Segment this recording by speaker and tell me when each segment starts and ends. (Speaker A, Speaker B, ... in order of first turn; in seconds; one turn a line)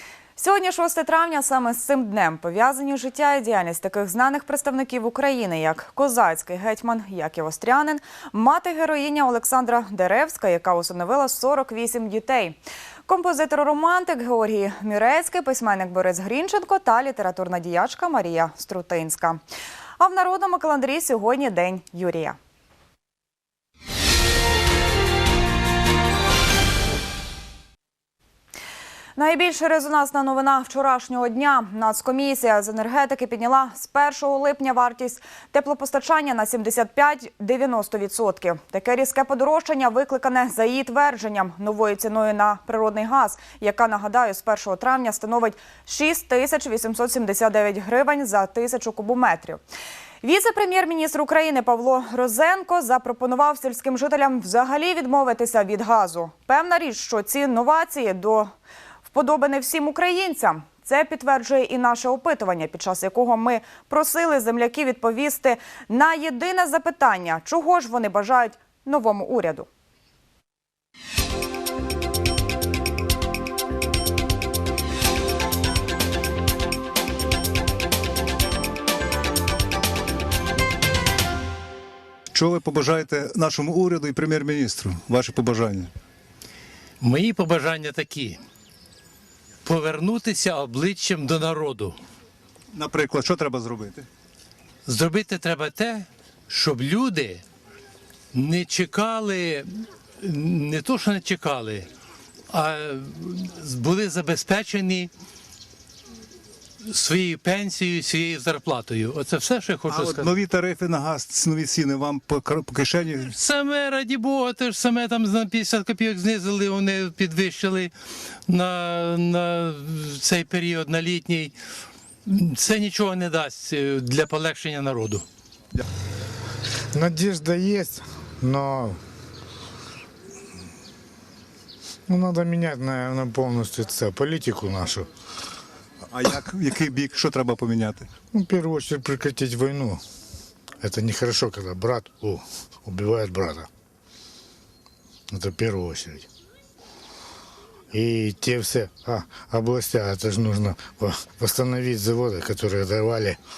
Speaker A: 0.4-19.4
Speaker A: 20.0-22.4
Speaker A: 29.2-49.6
Speaker A: 50.2-58.5
Speaker A: 59.1-69.7
Speaker B: 82.3-85.9
Speaker C: 87.0-88.4
Speaker C: 89.6-92.0
Speaker B: 92.7-94.0
Speaker C: 94.8-97.4
Speaker C: 98.3-99.7
Speaker C: 100.2-101.9
Speaker C: 102.5-105.1
Speaker C: 106.9-110.3
Speaker B: 109.9-113.3
Speaker C: 113.2-117.9
Speaker C: 118.5-121.5
Speaker C: 122.3-125.2
Speaker D: 126.9-129.0
Speaker D: 132.1-135.1
Speaker B: 136.1-138.1
Speaker D: 138.3-140.0
Speaker D: 140.8-143.7
Speaker D: 145.3-146.3
Speaker D: 147.9-153.4